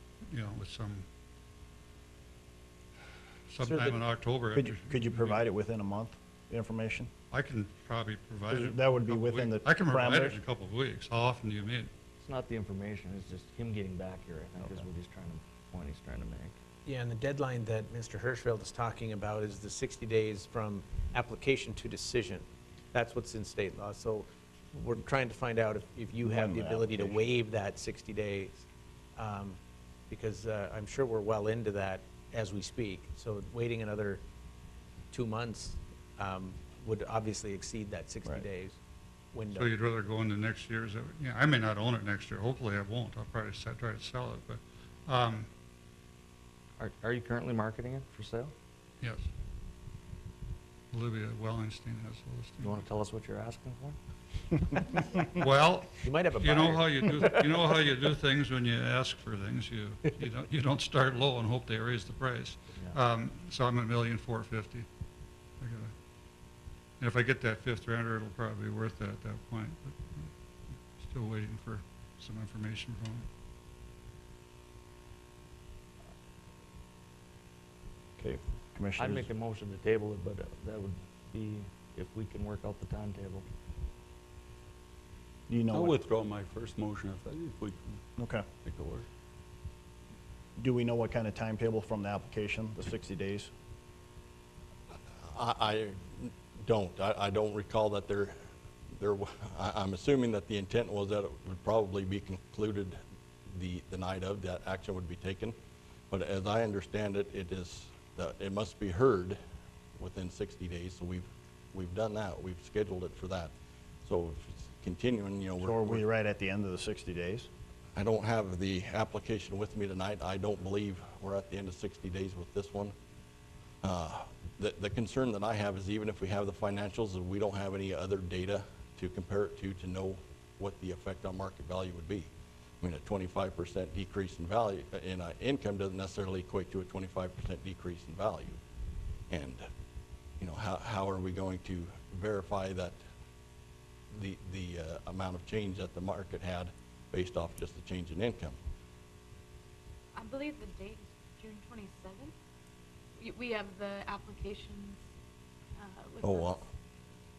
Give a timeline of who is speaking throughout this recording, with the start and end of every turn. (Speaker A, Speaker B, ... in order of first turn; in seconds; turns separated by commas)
Speaker A: 0.3-1.1, Speaker A: 3.5-5.4, Speaker B: 3.6-4.0, Speaker C: 4.5-7.1, Speaker A: 7.3-11.9, Speaker C: 8.5-10.4, Speaker D: 12.2-16.6, Speaker B: 16.9-28.6, Speaker C: 26.2-27.3, Speaker B: 29.1-29.6, Speaker B: 30.1-34.2, Speaker B: 35.1-38.8, Speaker B: 39.3-39.7, Speaker A: 39.5-45.5, Speaker D: 46.8-48.5, Speaker A: 49.0-49.3, Speaker A: 50.9-52.8, Speaker D: 52.6-54.0, Speaker D: 54.7-55.0, Speaker A: 55.2-64.9, Speaker B: 56.0-57.5, Speaker A: 65.6-65.9, Speaker A: 67.0-70.3, Speaker A: 71.0-73.3, Speaker C: 78.2-79.3, Speaker D: 79.0-83.5, Speaker C: 85.5-86.0, Speaker E: 85.8-88.0, Speaker C: 88.2-88.5, Speaker E: 88.7-89.0, Speaker C: 90.6-93.5, Speaker F: 95.2-98.4, Speaker F: 99.0-103.0, Speaker F: 103.5-105.5, Speaker F: 106.1-109.4, Speaker F: 110.0-113.5, Speaker F: 114.0-116.0, Speaker C: 115.6-117.5, Speaker F: 118.0-122.9, Speaker F: 123.8-132.3, Speaker F: 132.8-138.6, Speaker F: 139.3-139.7, Speaker F: 140.4-143.0, Speaker F: 144.1-148.6, Speaker G: 150.2-152.3, Speaker G: 153.2-155.0, Speaker G: 155.8-156.6, Speaker F: 156.2-156.6